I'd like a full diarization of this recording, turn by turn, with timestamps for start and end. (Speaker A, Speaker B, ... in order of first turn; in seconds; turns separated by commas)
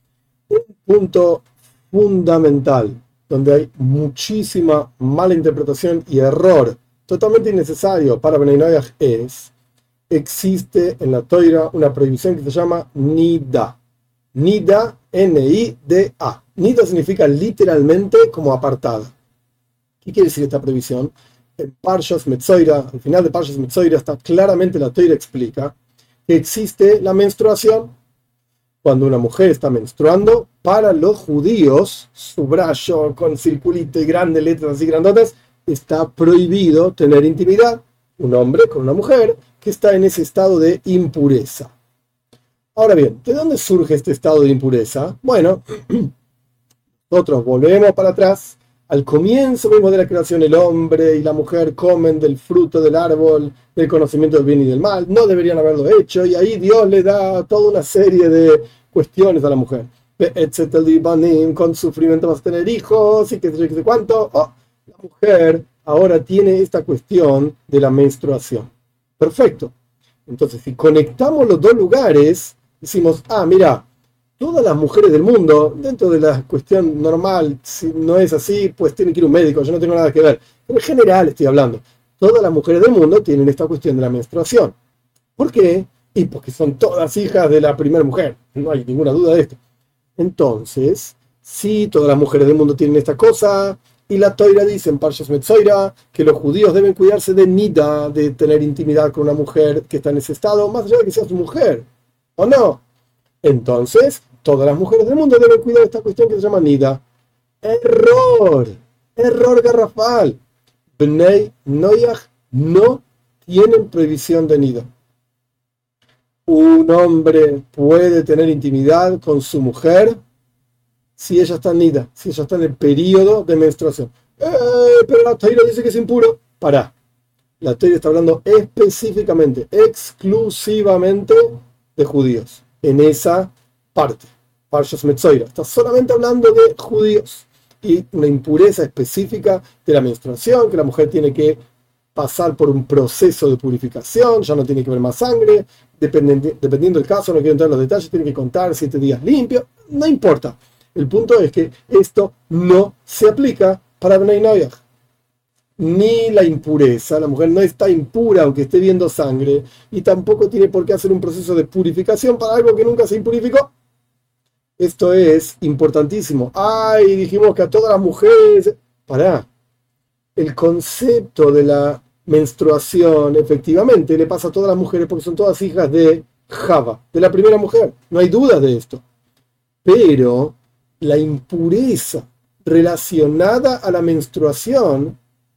Speaker A: 0.5-9.5, Speaker A: 10.1-13.8, Speaker A: 14.3-19.1, Speaker A: 20.0-25.8, Speaker A: 26.3-27.9, Speaker A: 28.8-41.7, Speaker A: 42.8-46.1, Speaker A: 47.1-69.7, Speaker A: 70.3-73.8, Speaker A: 74.4-84.8, Speaker A: 85.4-89.6, Speaker A: 90.2-101.9, Speaker A: 102.4-102.8, Speaker A: 103.4-107.0, Speaker A: 107.6-110.4, Speaker A: 111.0-114.9, Speaker A: 116.5-120.2, Speaker A: 121.2-126.9, Speaker A: 127.6-141.6, Speaker A: 142.2-154.8, Speaker A: 155.8-163.7, Speaker A: 164.8-169.5, Speaker A: 170.4-179.0, Speaker A: 179.8-185.2